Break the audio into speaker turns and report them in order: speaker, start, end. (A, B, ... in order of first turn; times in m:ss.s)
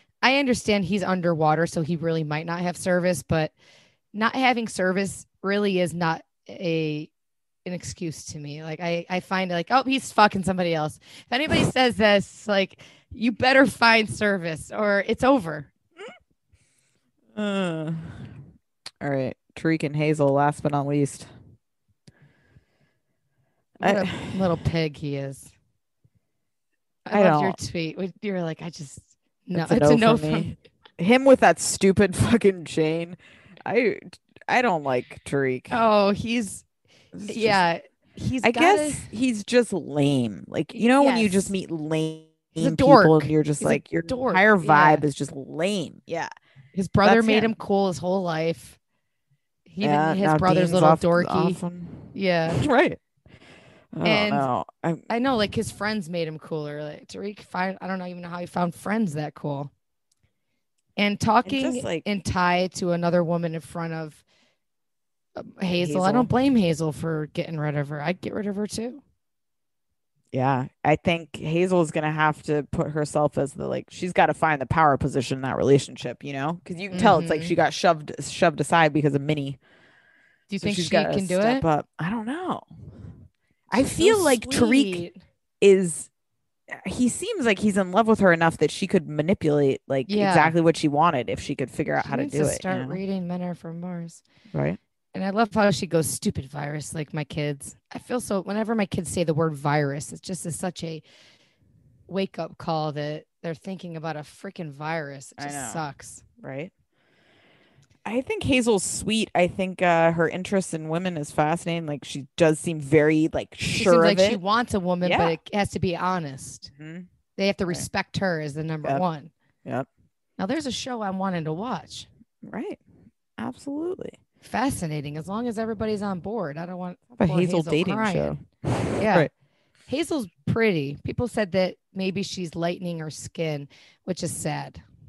0:00.2-0:03.5 A
0:04.1-0:07.1 A
0:07.6-0:15.7 A
0:17.3-0:18.3 B
0:19.0-0:21.3 B
0:23.8-0:24.4 B
0:23.8-0:25.5 A
0:27.0-0:30.6 A
0:27.1-0:27.6 B
0:29.5-0:35.8 B
0:35.7-0:36.6 A
0:37.1-0:37.6 B
0:37.3-0:39.1 A
0:38.4-0:46.3 B
0:40.7-0:41.5 A
0:42.6-0:45.0 A
0:46.7-0:48.8 A
0:47.0-0:47.5 B
0:49.7-0:51.6 A
0:49.8-0:53.0 B
0:52.1-0:52.6 A
0:53.9-0:55.0 B
0:54.0-0:54.5 A
0:55.1-0:59.7 A
1:01.0-1:04.2 A
1:01.4-1:02.0 B
1:05.4-1:09.0 A
1:05.8-1:06.3 B
1:10.3-1:19.6 B
1:16.9-1:17.5 A
1:20.5-1:21.6 A
1:20.6-1:22.7 B
1:23.7-1:25.0 B
1:23.7-1:25.2 A
1:25.6-1:26.1 B
1:26.7-1:33.0 B
1:30.1-1:30.5 A
1:32.0-1:34.2 A
1:34.5-1:34.8 B
1:35.1-1:41.0 A
1:42.1-1:46.2 A
1:45.4-1:45.8 B
1:46.4-1:46.7 B
1:48.0-1:54.4 B
1:53.7-1:56.7 A
1:55.0-1:55.4 B
1:56.7-1:57.1 B
1:57.4-1:59.3 A
2:00.4-2:02.1 A
2:02.4-2:02.8 B
2:03.4-2:04.2 B
2:04.4-2:08.4 A
2:07.1-2:09.3 B
2:09.0-2:09.3 A
2:09.9-2:14.8 A